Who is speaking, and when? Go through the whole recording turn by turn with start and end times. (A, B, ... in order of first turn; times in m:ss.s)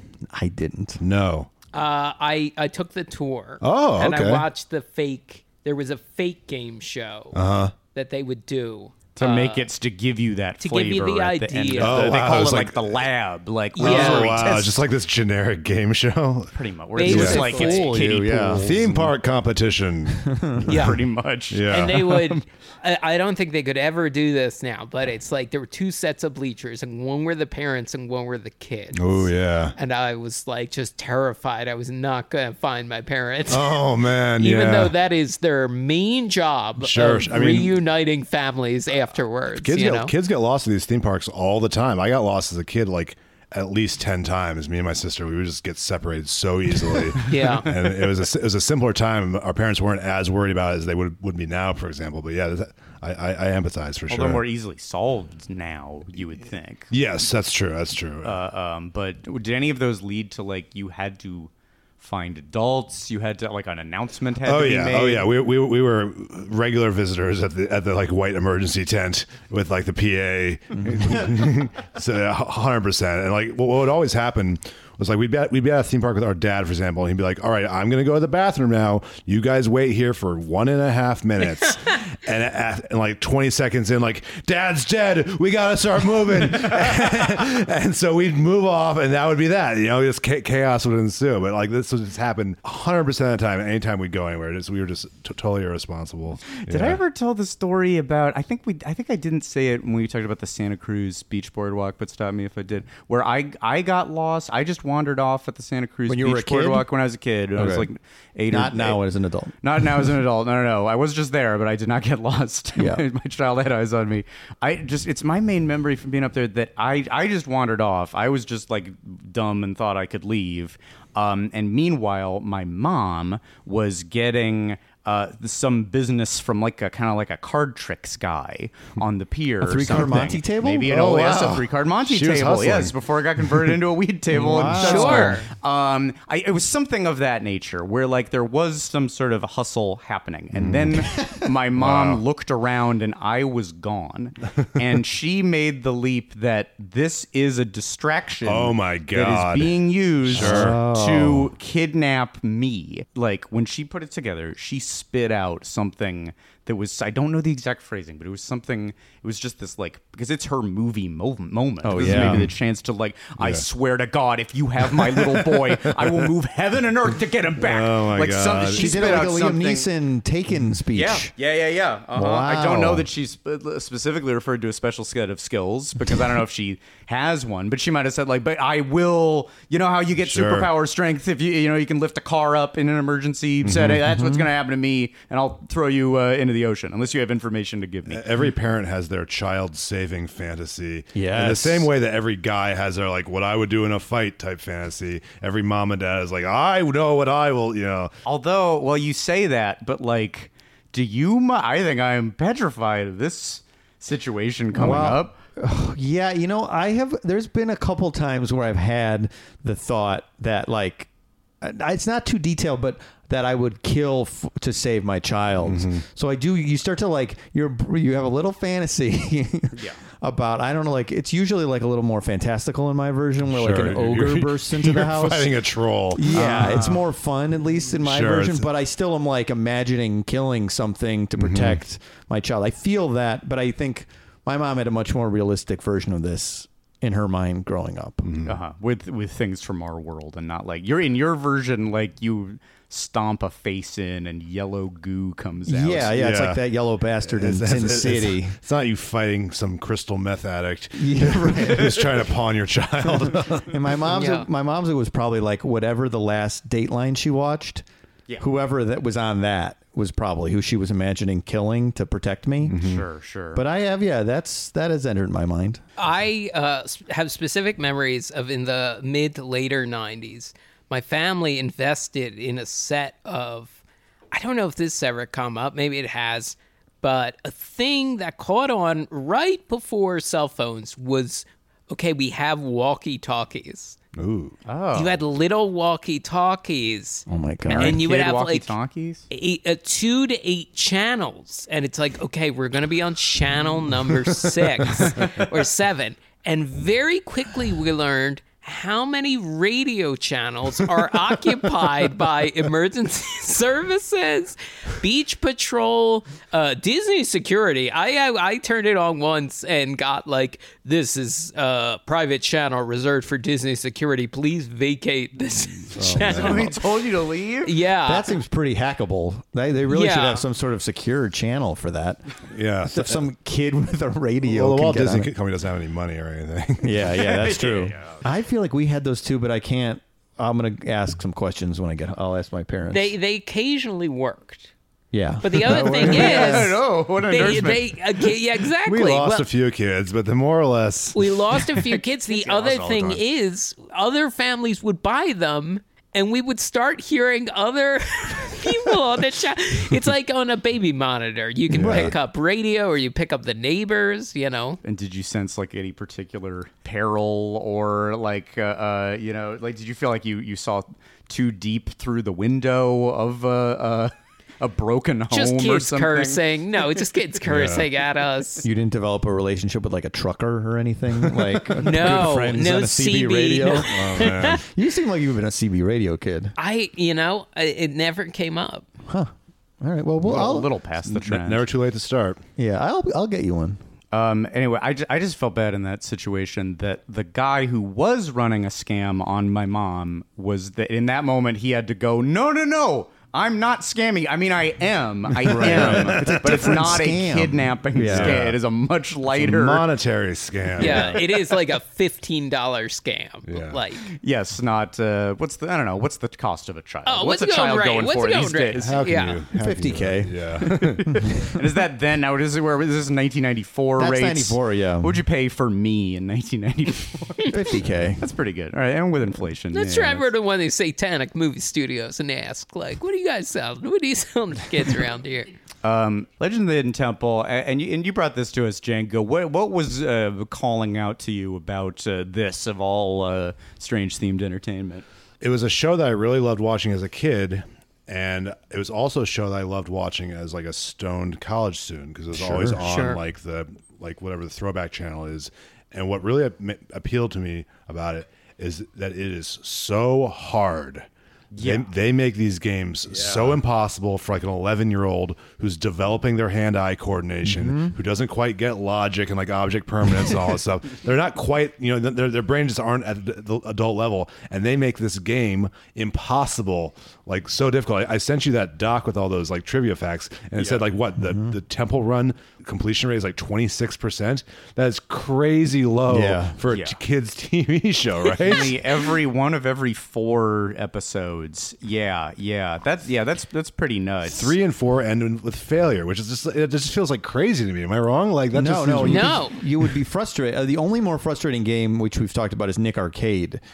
0:00.3-0:01.0 A
0:01.0-0:01.5 B
0:01.7-0:09.7 C
0:03.6-0:04.4 B
0:07.3-0:07.7 B
0:09.1-0:14.8 D
0:10.6-0:12.2 C
0:11.8-0:13.0 B
0:13.8-0:14.4 C
0:13.8-0:17.4 B
0:16.5-0:19.0 D
0:17.0-0:17.9 C
0:17.0-0:19.1 A
0:18.6-0:20.9 B
0:20.2-0:20.6 A
0:20.7-0:22.3 D
0:20.7-0:21.0 C
0:21.5-0:22.1 B
0:21.7-0:40.1 C
0:29.0-0:29.7 B
0:33.5-0:34.9 B
0:36.8-0:37.7 B
0:39.6-0:54.4 B
0:47.2-0:47.8 C
0:54.1-0:56.9 D
0:56.9-0:58.3 B
0:58.2-1:05.3 D
1:04.4-1:37.0 B
1:10.8-1:11.3 A
1:36.6-1:49.0 D
1:46.1-1:46.9 A
1:47.6-1:47.9 A
1:48.5-1:50.1 A
1:49.6-2:49.9 D
1:52.8-1:53.0 A
2:09.6-2:10.9 A
2:10.8-2:12.9 B
2:14.3-2:15.4 A
2:14.8-2:15.5 C
2:20.5-2:21.1 B
2:21.8-2:22.2 B
2:28.4-2:30.8 B
2:30.3-2:31.5 A
2:41.8-2:42.5 A
2:42.0-2:42.5 B
2:43.4-2:43.6 B
2:45.0-2:46.2 B
2:47.6-2:49.2 B
2:48.6-2:51.3 A
2:50.9-3:08.2 D
2:52.1-2:53.1 A
3:00.2-3:00.7 B
3:03.6-3:04.0 B
3:03.8-3:04.5 A
3:08.1-3:18.1 B
3:11.1-3:11.9 A
3:18.2-3:25.4 D
3:24.7-3:31.1 A
3:31.6-3:58.3 A
3:35.6-3:36.0 B
3:39.7-3:40.0 D
3:43.5-3:46.9 B
3:46.3-3:47.1 D
3:48.0-3:48.7 B
3:51.4-3:51.8 B
3:58.2-3:58.6 B
3:58.4-4:06.2 D
4:05.7-4:08.6 A
4:06.1-4:06.6 B
4:07.2-4:13.7 B
4:10.9-4:12.3 A
4:13.0-4:17.8 A
4:14.1-4:14.5 C
4:18.4-4:22.8 A
4:22.6-4:23.0 B
4:22.8-4:23.6 D
4:23.5-4:25.8 A
4:26.0-4:33.8 C
4:34.3-4:44.0 C
4:44.2-4:44.6 B
4:44.7-4:45.2 D
4:44.9-4:48.7 C
4:47.3-4:48.0 A
4:47.8-4:49.2 D
4:49.3-5:16.8 C
4:55.1-4:55.4 D
5:15.9-5:16.7 B
5:16.2-5:17.7 D
5:17.6-5:18.4 C
5:18.0-5:22.2 A
5:19.9-5:20.4 C
5:22.5-5:23.2 B
5:22.8-5:25.3 A
5:24.4-5:27.0 B
5:26.8-5:33.1 A
5:27.2-5:28.2 D
5:32.9-5:34.7 C
5:35.1-5:36.5 A
5:35.4-5:39.5 C
5:35.6-5:36.7 B
5:35.8-5:38.0 D
5:38.9-5:41.2 B
5:41.1-5:54.8 C
5:41.7-5:43.1 D
5:42.4-5:43.2 B
5:51.7-5:52.1 B
5:51.8-5:52.1 A
5:54.8-6:06.4 D
6:05.3-6:08.6 C
6:07.4-6:07.8 B
6:08.6-6:16.5 A
6:11.8-6:14.6 C
6:13.8-6:14.6 B
6:16.6-6:18.8 C
6:19.1-6:20.7 A
6:20.2-6:21.7 D
6:21.1-6:22.4 B
6:22.6-6:23.8 A
6:24.1-6:39.8 D
6:35.4-6:37.0 B
6:35.4-6:38.5 A
6:38.0-6:38.6 B
6:39.4-6:41.2 B
6:40.8-6:44.0 C
6:40.8-6:41.2 D
6:43.5-6:43.8 B
6:44.1-6:49.0 D
6:47.0-6:49.4 C
6:48.8-6:51.3 B
6:49.5-6:51.4 A
6:51.4-6:57.5 D
6:54.0-6:55.2 A
6:57.5-6:58.2 A
6:58.2-7:00.3 D
6:59.7-7:05.5 C
7:05.8-7:15.0 D
7:15.4-7:31.1 B
7:22.4-7:22.6 A
7:22.8-7:23.2 C
7:31.5-7:31.9 D
7:31.6-7:58.8 B
7:33.1-7:33.5 D
7:37.4-7:37.9 A
7:51.2-7:51.5 A
7:56.1-7:56.5 A
7:56.7-7:57.0 D
7:58.3-8:04.6 D
8:04.3-8:09.4 B
8:08.5-8:13.6 A
8:09.0-8:09.6 C